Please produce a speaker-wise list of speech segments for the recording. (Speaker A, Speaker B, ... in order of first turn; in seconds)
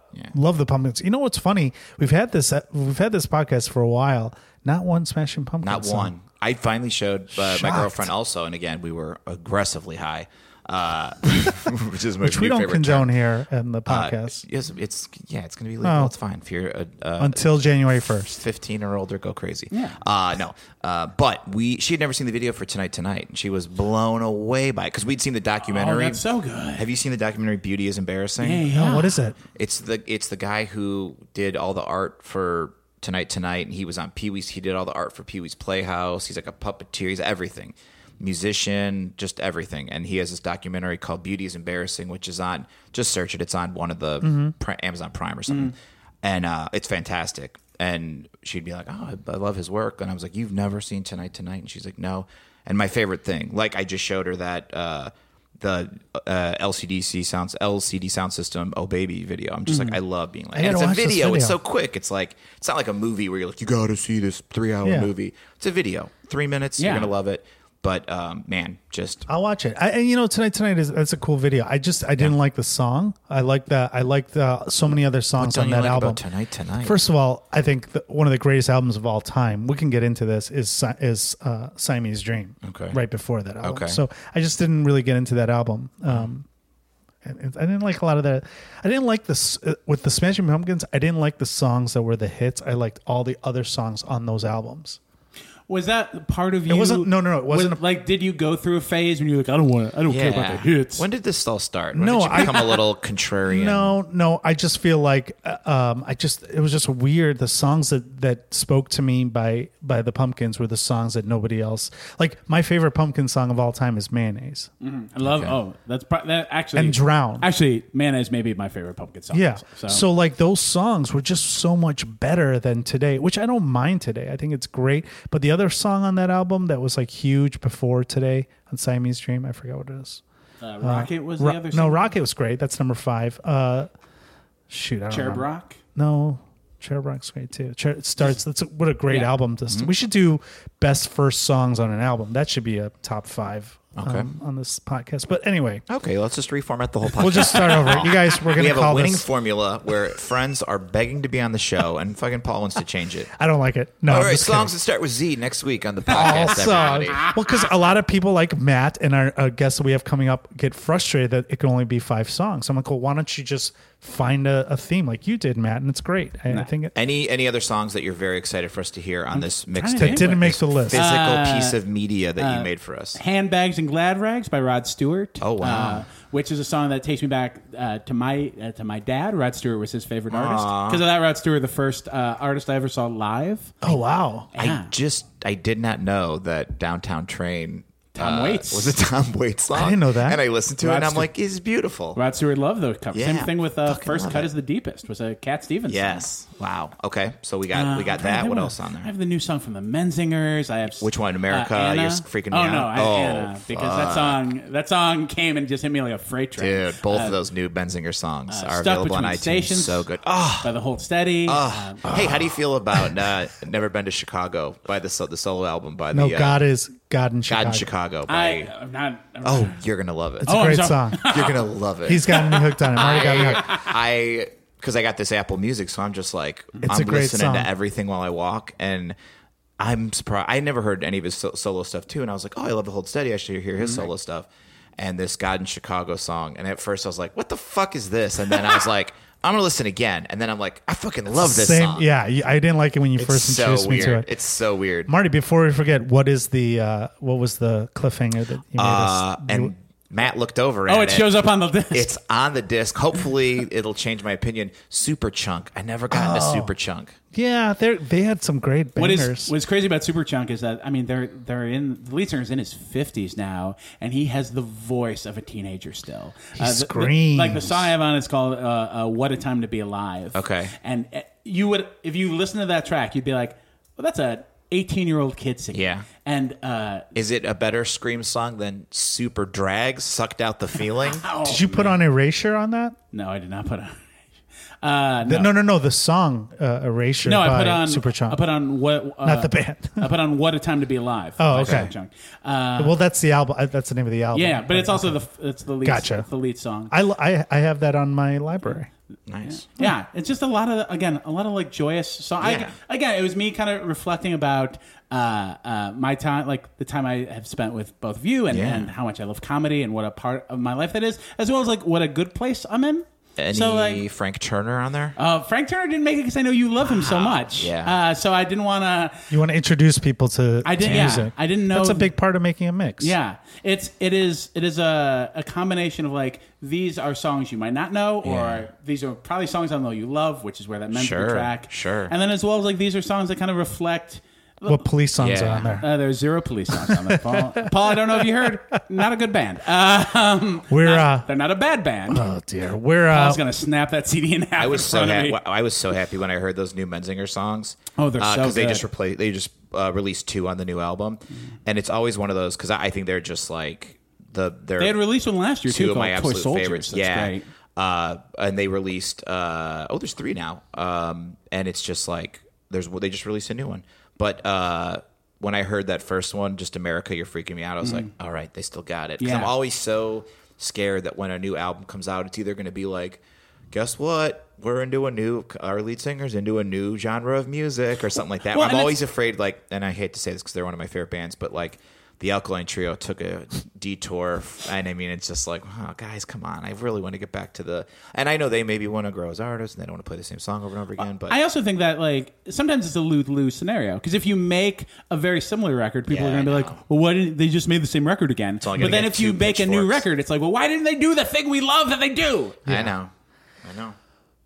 Speaker A: 0.3-6.1, 7.4-8.1, 12.2-14.4, 15.8-16.1, 17.2-18.4, 28.7-29.4, 44.2-44.5, 60.5-61.6, 64.8-65.1, 69.3-76.2, 76.8-86.5, 87.2-95.0, 96.7-97.8, 101.9-102.8, 103.5-114.7, 116.8-117.5, 119.3-130.2, 130.8-133.9, 134.7-145.8, 147.2-149.3, 153.4-154.7, 156.1-166.9, 170.0-171.0, 183.8-184.5, 189.7-190.4, 212.1-212.6, 216.1-217.9, 220.4-221.4, 222.1-223.8, 226.8-227.7, 241.4-244.3, 245.1-249.7, 256.1-256.7, 257.3-259.5, 266.6-267.9, 281.4-283.0, 285.2-288.4, 289.2-290.1, 291.4-291.9, 292.8-295.2, 295.8-296.3, 296.9-298.9, 319.3-323.2, 334.7-335.9, 336.9-338.3, 340.7-341.3, 342.1-343.4
Speaker B: 5.6-13.1, 13.9-17.4, 18.3-26.2, 26.8-29.0, 29.6-69.3, 75.4-77.0, 82.6-83.0, 83.6-84.0, 100.1-104.0, 115.2-115.6, 139.7-139.9, 144.0-144.3, 145.9-153.3, 154.1-157.3, 166.9-173.2, 175.4-176.1, 180.3-181.0, 184.6-192.2, 193.1-194.5, 195.9-199.1, 201.0-204.4, 206.6-210.7, 211.5-216.6, 217.5-218.7, 219.4-220.6, 221.2-229.2, 229.8-242.1, 243.2-245.1, 248.8-251.3, 251.9-257.1, 270.3-270.8, 275.7-276.1, 277.1-281.3, 291.5-291.9, 299.3-299.7, 302.4-302.7, 308.5-308.9, 313.4-315.2, 316.8-318.0, 320.8-321.3, 328.2-328.7, 330.9-332.1, 335.2-335.8, 344.6-355.0, 355.7-391.4, 396.1-396.8, 398.6-400.1, 402.7-403.1, 403.6-404.0
Speaker C: 19.7-20.0, 25.7-26.9, 28.4-29.2, 45.5-45.8, 59.7-60.0, 66.8-67.1, 95.7-101.0, 114.8-120.0, 130.6-132.1, 135.1-135.8, 169.3-171.8, 172.4-184.0, 184.5-184.9, 188.1-189.0, 190.8-191.3, 192.1-196.3, 197.7-207.4, 208.5-210.1, 210.6-212.1, 218.3-219.8, 220.4-221.6, 222.3-223.9, 233.8-234.1, 250.9-252.1, 259.0-277.1, 280.9-282.0, 283.1-284.0, 284.8-285.5, 287.2-293.0, 294.3-296.9, 299.5-314.1, 315.2-319.3, 320.6-322.1, 323.0-334.9, 335.8-342.3, 343.1-345.4, 348.0-348.9, 354.8-357.5, 367.8-368.1, 369.2-369.5, 378.5-379.0, 391.3-402.7